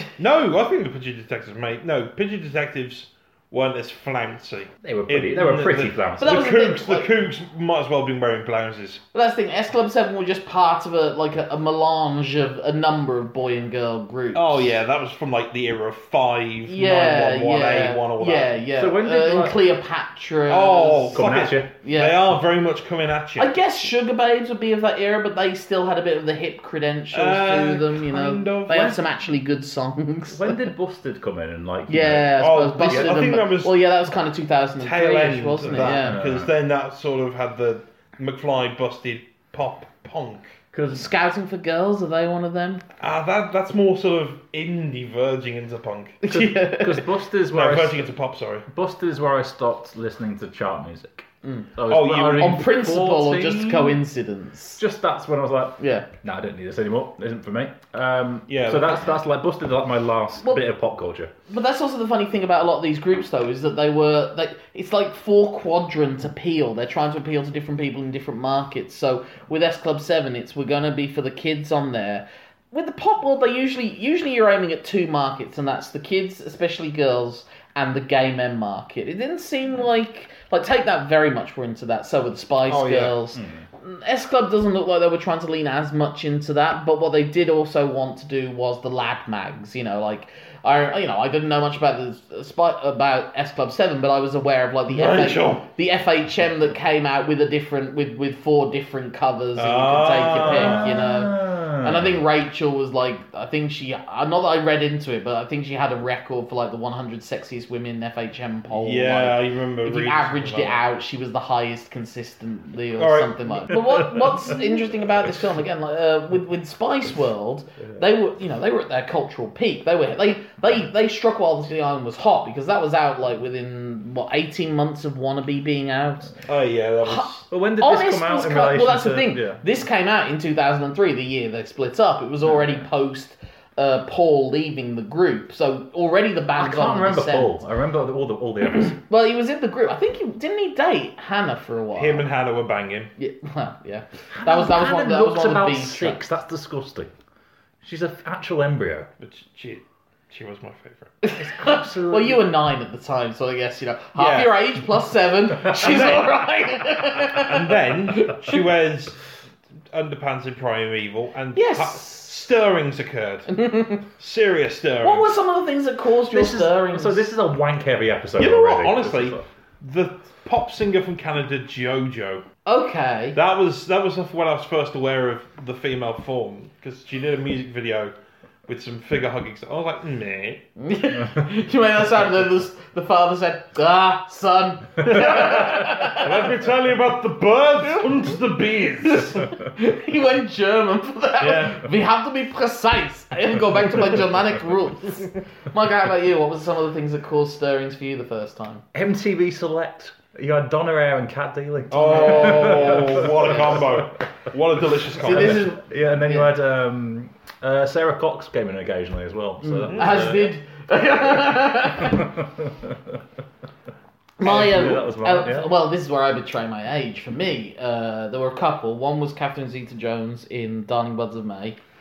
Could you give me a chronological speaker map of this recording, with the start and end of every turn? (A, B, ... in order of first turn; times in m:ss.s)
0:00.2-0:09.0 A
0:04.8-0:06.5 B
0:06.2-0:07.1 C
0:09.1-0:14.7 C
0:14.3-0:18.6 A
0:16.7-0:21.3 C
0:18.8-0:19.7 B
0:20.5-0:23.5 A
0:21.1-0:21.7 B
0:21.8-0:22.3 C
0:23.4-0:30.7 C
0:27.1-0:29.0 A
0:30.3-0:33.4 B
0:31.9-0:36.2 C
0:32.4-0:33.9 A
0:34.8-0:40.5 A
0:35.8-0:36.5 B
0:40.7-0:41.0 B
0:40.9-0:42.8 C
0:43.0-0:46.3 A
0:46.2-0:47.0 C
0:46.3-0:48.1 B
0:47.5-0:48.7 A
0:48.7-0:54.0 B
0:51.4-0:51.7 C
0:51.9-0:52.6 A
0:52.3-0:54.8 C
0:54.8-1:01.3 B
0:55.8-0:56.1 C
0:58.5-0:59.0 A
1:01.5-2:06.4 C
1:22.7-1:23.2 A
1:23.3-1:23.7 B
1:34.9-1:35.7 A
1:39.6-1:40.9 A
1:40.4-1:42.2 B
1:48.7-1:50.8 A
1:53.0-1:54.0 A
2:06.5-2:07.5 A
2:07.0-2:17.6 C
2:07.5-2:09.6 B
2:16.6-2:19.0 B
2:18.8-2:22.3 C
2:22.0-2:23.1 A
2:23.2-2:26.2 C
2:24.3-2:27.1 B
2:27.8-2:29.1 B
2:29.2-2:31.2 A
2:31.2-2:38.6 C
2:31.4-2:32.5 B
2:34.2-2:34.6 A
2:35.7-2:36.4 A
2:37.3-2:39.2 A
2:39.9-2:45.3 A
2:41.6-2:42.5 C
2:43.5-2:44.0 C
2:45.0-2:47.2 C
2:46.3-2:49.5 B
2:48.4-2:52.4 A
2:52.7-2:53.4 C
2:53.3-2:58.1 A
2:58.7-3:00.6 A
3:00.8-3:06.3 C
3:05.0-3:09.4 A
3:09.0-3:18.8 C
3:11.4-3:11.8 A
3:18.9-3:24.1 B
3:21.9-3:25.7 A
3:21.9-3:23.9 C
3:25.2-3:26.5 C
3:25.2-3:30.5 B
3:29.6-3:32.3 C
3:29.8-3:30.2 A
3:32.0-3:33.2 B
3:34.4-3:41.8 C
3:34.4-3:35.7 B